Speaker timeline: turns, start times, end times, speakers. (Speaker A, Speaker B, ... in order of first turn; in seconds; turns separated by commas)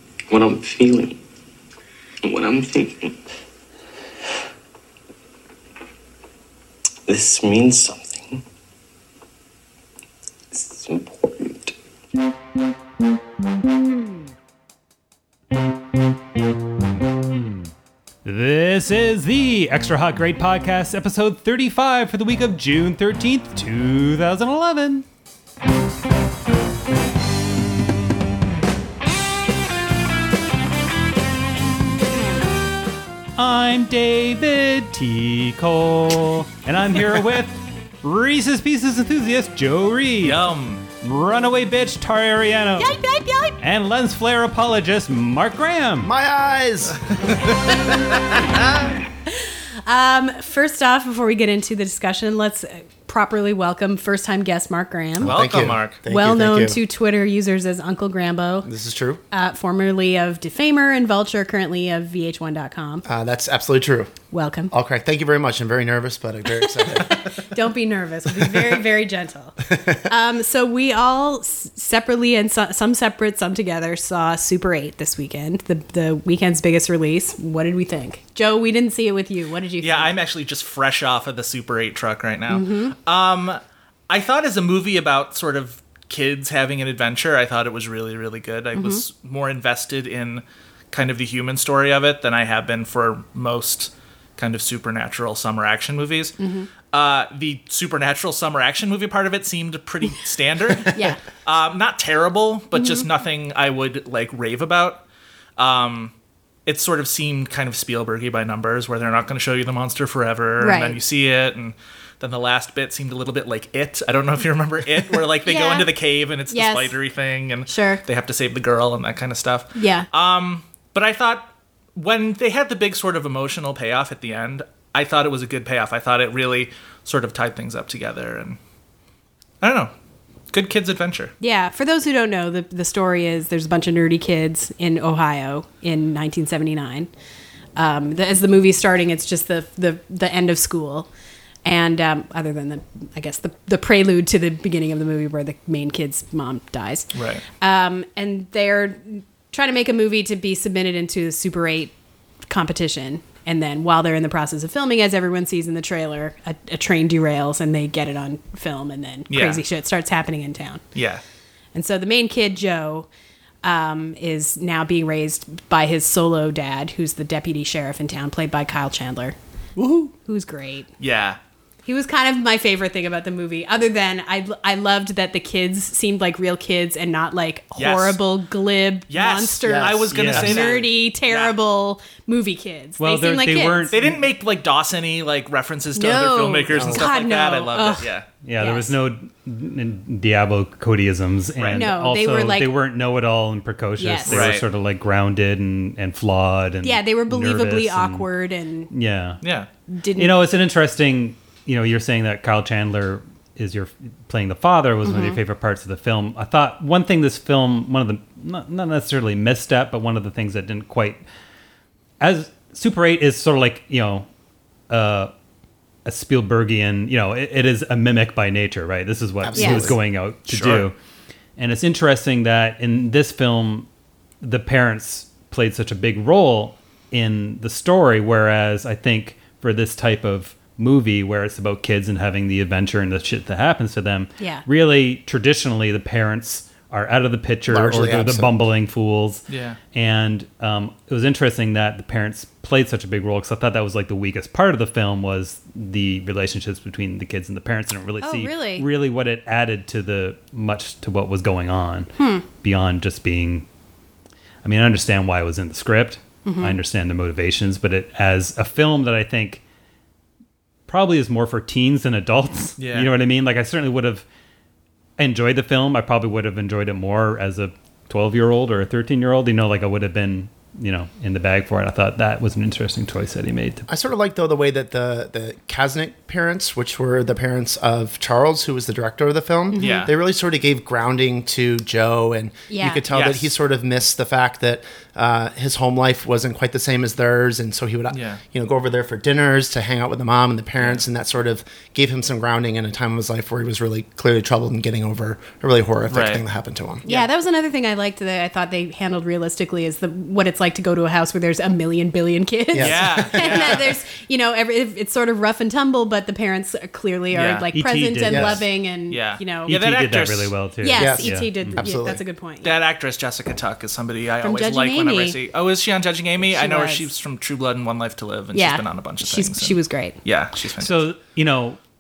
Speaker A: 0.3-1.2, Speaker A: 2.2-3.2, Speaker A: 7.1-8.4, Speaker A: 10.5-11.7, Speaker B: 17.2-17.7, Speaker B: 18.2-25.1, Speaker B: 33.4-40.4, Speaker C: 40.2-40.9, Speaker B: 41.0-43.0, Speaker D: 42.8-43.6, Speaker B: 43.6-46.1, Speaker E: 46.0-47.0, Speaker D: 49.3-55.3, Speaker E: 55.2-56.8, Speaker C: 55.2-56.0, Speaker D: 56.1-58.7, Speaker E: 58.6-59.2, Speaker D: 59.3-63.0, Speaker E: 63.1-64.1, Speaker D: 64.3-64.7, Speaker E: 64.7-67.5, Speaker D: 66.6-80.1, Speaker E: 68.4-68.7, Speaker E: 69.7-70.0, Speaker C: 79.8-96.3, Speaker D: 82.5-82.9, Speaker D: 88.8-89.0, Speaker D: 96.4-96.7, Speaker C: 96.9-105.0, Speaker D: 100.9-101.2, Speaker D: 102.7-103.1, Speaker C: 105.6-106.1, Speaker C: 106.7-128.6, Speaker D: 110.6-111.0, Speaker D: 115.5-115.9, Speaker D: 116.5-117.0, Speaker D: 117.7-118.0, Speaker D: 119.8-120.1, Speaker C: 129.6-129.9, Speaker C: 130.5-131.3, Speaker D: 131.4-137.1, Speaker D: 137.8-141.1, Speaker D: 141.7-151.9, Speaker C: 147.1-147.4, Speaker D: 152.5-160.8, Speaker C: 159.3-159.6, Speaker C: 160.9-161.2, Speaker D: 161.7-163.1, Speaker D: 163.6-169.4, Speaker E: 169.8-170.1, Speaker D: 170.3-170.9, Speaker C: 171.0-171.4, Speaker D: 171.9-183.9, Speaker C: 177.8-178.2, Speaker C: 179.1-181.5, Speaker E: 179.6-180.1, Speaker B: 180.1-180.8, Speaker B: 183.0-184.2, Speaker C: 183.9-188.3, Speaker D: 186.0-188.9, Speaker E: 186.7-187.0, Speaker B: 188.4-198.3, Speaker C: 191.6-191.9, Speaker D: 191.7-192.7, Speaker D: 194.0-194.5, Speaker C: 194.3-194.7, Speaker D: 196.8-198.9, Speaker B: 198.9-199.4, Speaker C: 199.4-199.7, Speaker D: 199.9-200.4, Speaker B: 200.2-211.2, Speaker D: 205.1-205.4, Speaker B: 212.2-214.3, Speaker B: 214.9-215.3, Speaker B: 216.1-221.0, Speaker E: 219.4-220.0, Speaker D: 219.6-219.9, Speaker C: 220.5-220.9, Speaker B: 221.6-223.9, Speaker B: 224.4-252.1, Speaker D: 234.4-234.7, Speaker E: 237.7-238.6, Speaker C: 239.5-239.8, Speaker D: 248.2-248.9, Speaker D: 252.2-252.4, Speaker B: 252.6-253.7, Speaker B: 254.6-259.6, Speaker D: 256.4-256.8, Speaker B: 260.9-264.2, Speaker C: 262.8-263.1, Speaker B: 265.2-273.9, Speaker E: 273.9-297.1, Speaker D: 279.7-280.1, Speaker C: 279.8-280.1, Speaker D: 282.7-283.0, Speaker C: 283.1-283.5, Speaker C: 288.1-288.4, Speaker C: 290.8-291.0, Speaker C: 296.1-296.4, Speaker D: 297.1-309.7, Speaker E: 302.7-303.9, Speaker C: 302.8-303.9, Speaker C: 307.3-307.6, Speaker B: 307.7-308.7, Speaker E: 308.3-308.6, Speaker C: 309.1-310.6, Speaker B: 309.7-311.8, Speaker D: 310.8-312.8, Speaker E: 310.9-312.2, Speaker C: 312.6-321.1, Speaker D: 314.4-315.4, Speaker D: 316.5-317.1, Speaker D: 318.5-320.2, Speaker B: 320.8-321.8